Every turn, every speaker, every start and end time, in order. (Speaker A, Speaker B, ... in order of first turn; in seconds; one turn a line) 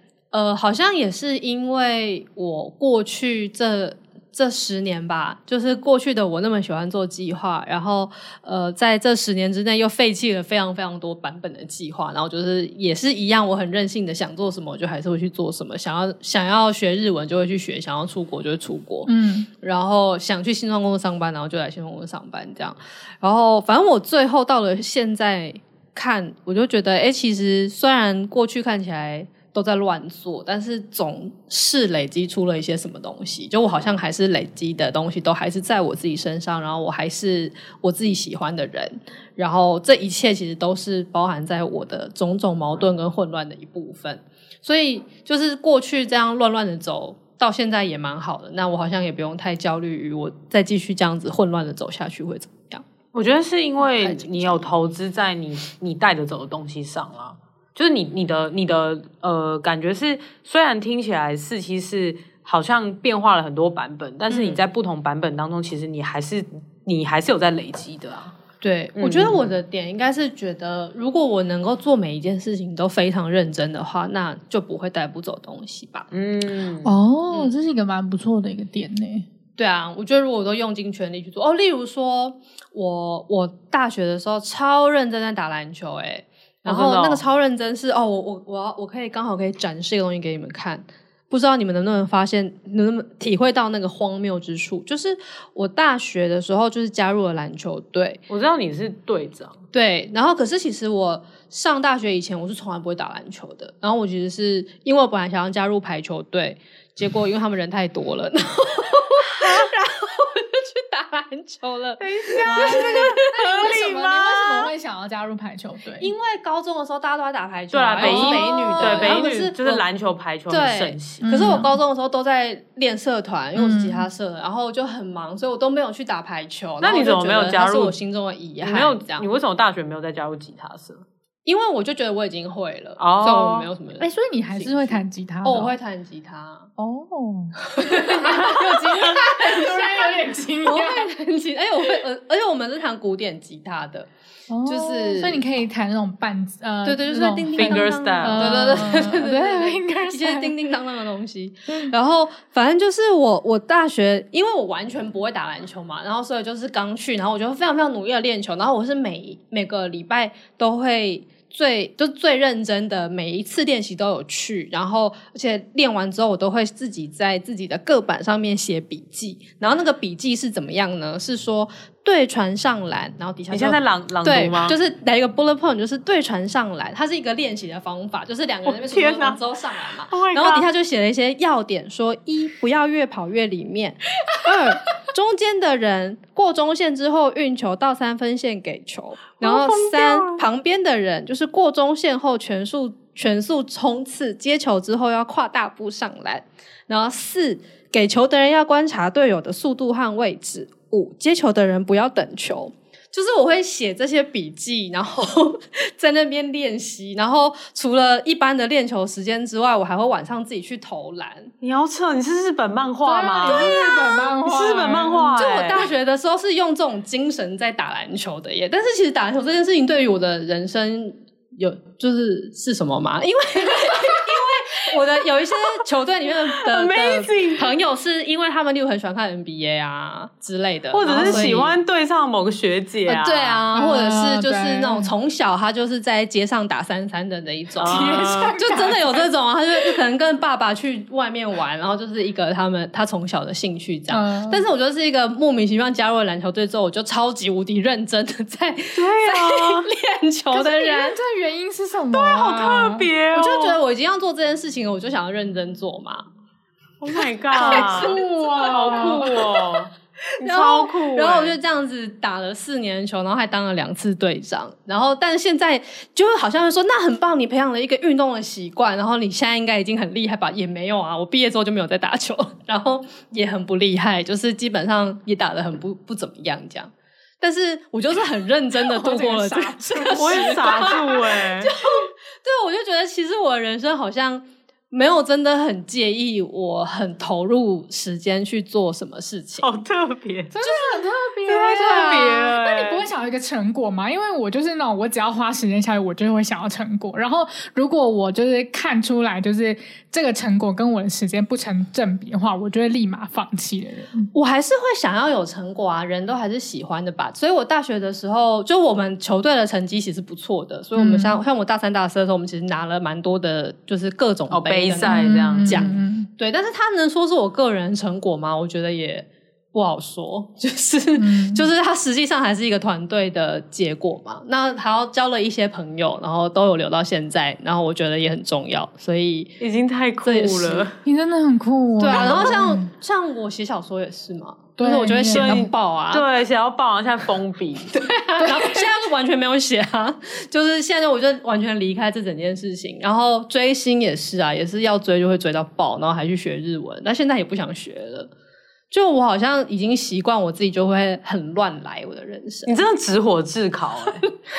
Speaker A: 0.3-52.8
Speaker B: 19.1-19.5
Speaker C: 53.1-68.3
Speaker A: 53.8-54.7
Speaker A: 64.3-64.6
Speaker A: 68.6-76.1
Speaker C: 69.0-69.5
Speaker C: 76.1-76.9
Speaker B: 76.8-79.2
Speaker A: 79.6-98.2
Speaker C: 86.6-87.2
Speaker C: 98.3-99.6
Speaker A: 99.7-113.5
Speaker C: 109.4-109.7
Speaker C: 112.0-114.7
Speaker B: 112.4-116.1
Speaker A: 116.0-119.8
Speaker C: 117.7-121.7
Speaker B: 118.0-119.2
Speaker A: 120.5-129.3
Speaker B: 121.2-121.8
Speaker B: 123.5-124.1
Speaker C: 126.8-127.9
Speaker C: 128.6-131.0
Speaker A: 131.4-136.7
Speaker C: 133.0-133.7
Speaker B: 134.0-135.7
Speaker B: 136.8-141.1
Speaker A: 137.7-144.1
Speaker B: 144.5-150.5
Speaker A: 144.6-145.4
Speaker A: 146.8-211.5
Speaker C: 147.6-148.9
Speaker B: 151.7-151.9
Speaker C: 173.5-174.8
Speaker C: 178.6-179.4
Speaker C: 180.1-180.7
Speaker C: 189.4-190.4
Speaker C: 211.6-213.8
Speaker B: 213.0-215.4
Speaker A: 213.4-214.2
Speaker C: 214.4-215.8
Speaker A: 215.3-231.8
Speaker C: 226.7-227.7
Speaker C: 230.9-233.6
Speaker B: 231.1-231.5
Speaker A: 233.1-251.2
Speaker B: 233.7-235.1
Speaker C: 237.8-238.6
Speaker B: 237.8-239.3
Speaker B: 244.1-244.6
Speaker C: 248.9-249.9
Speaker B: 250.5-253.1
Speaker C: 252.1-253.8
Speaker A: 253.3-256.2
Speaker C: 257.0-259.9
Speaker A: 257.1-259.8
Speaker B: 257.6-259.2
Speaker A: 260.4-289.7
Speaker C: 260.4-261.6
Speaker B: 278.8-281.1
Speaker C: 280.1-281.7
Speaker C: 289.6-290.5
Speaker B: 290.5-304.3
Speaker C: 291.5-293.1
Speaker A: 291.7-292.3
Speaker A: 304.3-329.5
Speaker B: 310.9-311.4
Speaker C: 314.5-315.9
Speaker B: 315.0-316.3
Speaker B: 321.1-321.7
Speaker C: 329.6-331.0
Speaker A: 330.2-330.9
Speaker B: 331.0-332.9
Speaker A: 332.0-336.2
Speaker C: 332.1-332.4
Speaker B: 334.8-335.6
Speaker C: 335.3-338.0
Speaker A: 337.9-348.3
Speaker B: 338.4-338.9
Speaker A: 348.9-352.8
Speaker C: 352.6-354.3